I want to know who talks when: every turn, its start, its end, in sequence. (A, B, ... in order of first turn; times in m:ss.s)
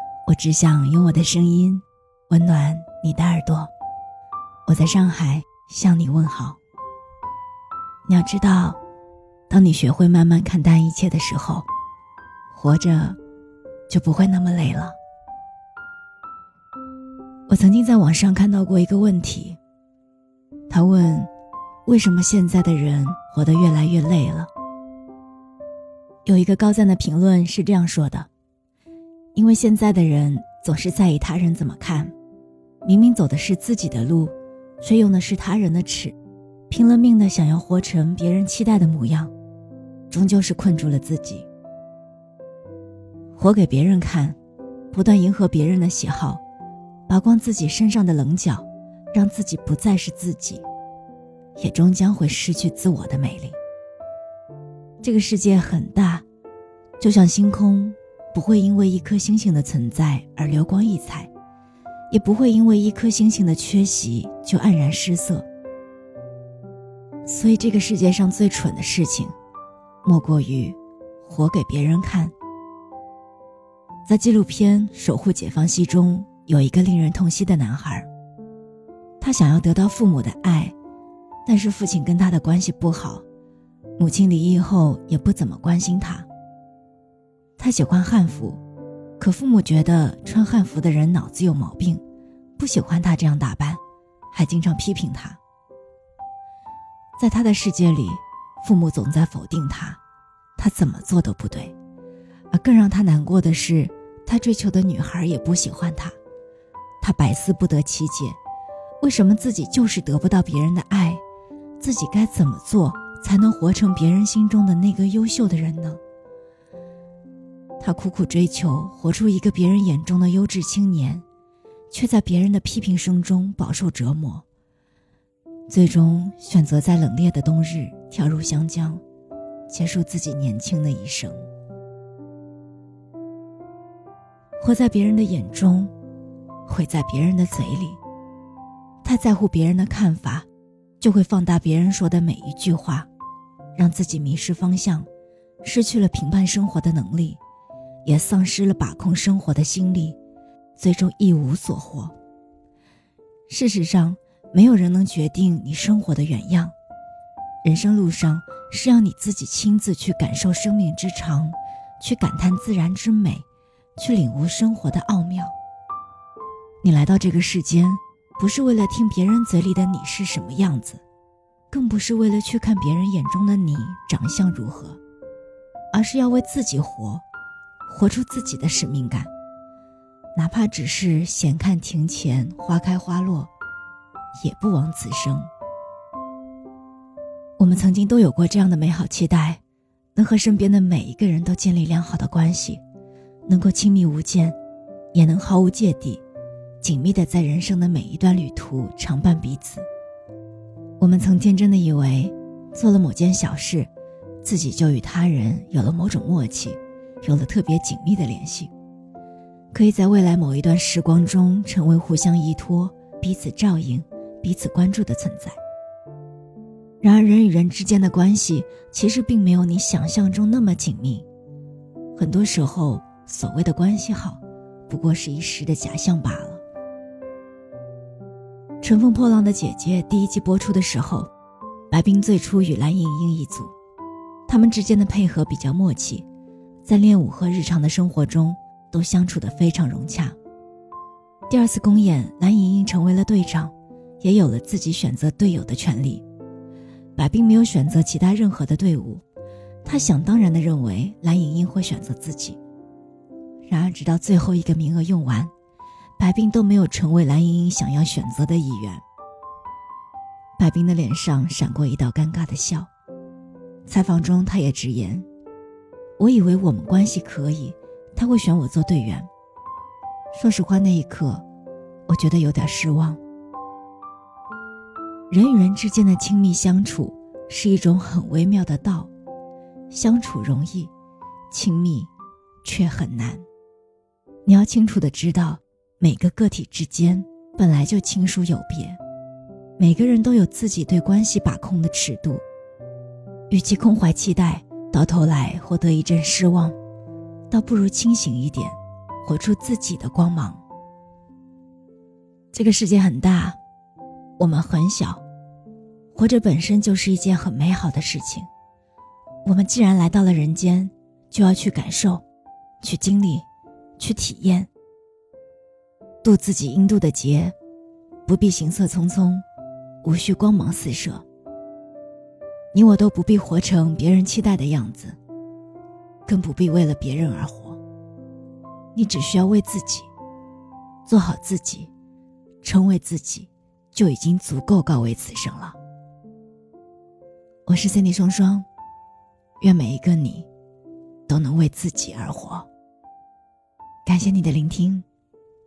0:00.3-0:03.7 A
0:04.7-0:06.6 A
0:08.1-0:08.8 A
0:09.5-0:11.7 A
0:12.5-0:13.2 A
0:13.9-0:15.0 A
0:17.5-0:19.6 A
0:20.7-0:21.3 A
0:21.9-0:24.5 A
0:26.2-0:28.3 A
0:29.4-0:32.1 A
0:32.8-0:36.2 A
0:36.7-0:39.3 A
0:40.1-0:41.5 A
0:43.3-0:44.4 A
0:44.9-0:46.4 A
0:47.1-0:50.6 A
0:51.6-0:53.6 A
0:55.0-0:56.2 A
0:57.0-1:01.3 A
1:02.1-1:05.5 A
1:07.2-1:09.3 A
1:10.0-1:12.3 A
1:14.1-1:18.1 A
1:19.2-1:20.7 A
1:21.5-1:23.2 A
1:24.0-1:26.3 A
1:27.6-1:28.6 A
1:29.2-1:32.0 A
1:32.6-1:33.8 A
1:34.3-1:35.4 A
1:37.2-1:40.0 A
1:40.6-1:41.8 A
1:42.5-1:46.2 A
1:47.0-1:48.4 A
1:49.0-1:51.2 A
1:51.8-1:56.0 A
1:57.8-2:01.2 A
2:01.9-2:04.4 A
2:05.7-2:09.0 A
2:09.7-2:11.4 A
2:14.6-2:15.9 A
2:16.7-2:18.0 A
2:19.0-2:20.5 A
2:21.0-2:23.1 A
2:23.8-2:25.1 A
2:25.6-2:27.4 A
2:28.0-2:30.2 A
2:30.8-2:32.1 A
2:33.5-2:36.7 A
2:37.6-2:43.4 A
2:44.0-2:45.6 A
2:46.8-2:51.0 A
2:51.7-2:55.0 A
2:55.9-2:57.2 A
2:57.9-2:59.3 A
3:00.4-3:03.5 A
3:04.4-3:05.5 A
3:07.6-3:09.6 A
3:10.2-3:12.8 A
3:13.5-3:14.6 A
3:15.1-3:16.2 A
3:16.8-3:19.9 A
3:21.0-3:23.9 A
3:24.4-3:28.7 A
3:29.7-3:35.6 A
3:37.0-3:41.3 A
3:42.2-3:46.6 A
3:48.8-3:51.3 A
3:51.9-3:53.7 A
3:54.5-3:56.3 A
3:56.8-4:00.4 A
4:01.5-4:06.2 A
4:07.2-4:09.2 A
4:09.8-4:12.6 A
4:13.7-4:15.5 A
4:16.2-4:19.0 A
4:20.6-4:22.9 A
4:23.9-4:25.3 A
4:26.2-4:29.3 A
4:30.3-4:31.4 A
4:32.1-4:33.2 A
4:35.3-4:39.1 A
4:39.9-4:40.9 A
4:41.5-4:42.1 A
4:42.6-4:43.4 A
4:44.5-4:49.0 A
4:49.8-4:52.4 A
4:53.5-4:56.8 A
4:57.5-5:00.6 A
5:02.5-5:03.6 A
5:04.4-5:05.2 A
5:06.1-5:08.5 A
5:09.4-5:12.2 A
5:12.8-5:13.5 A
5:14.0-5:14.7 A
5:16.2-5:17.6 A
5:18.3-5:19.4 A
5:20.0-5:21.2 A
5:22.7-5:25.2 A
5:26.3-5:27.8 A
5:29.0-5:30.1 A
5:31.1-5:31.9 A
5:32.6-5:35.8 A
5:37.7-5:38.7 A
5:39.6-5:40.5 A
5:41.3-5:42.7 A
5:44.1-5:45.0 A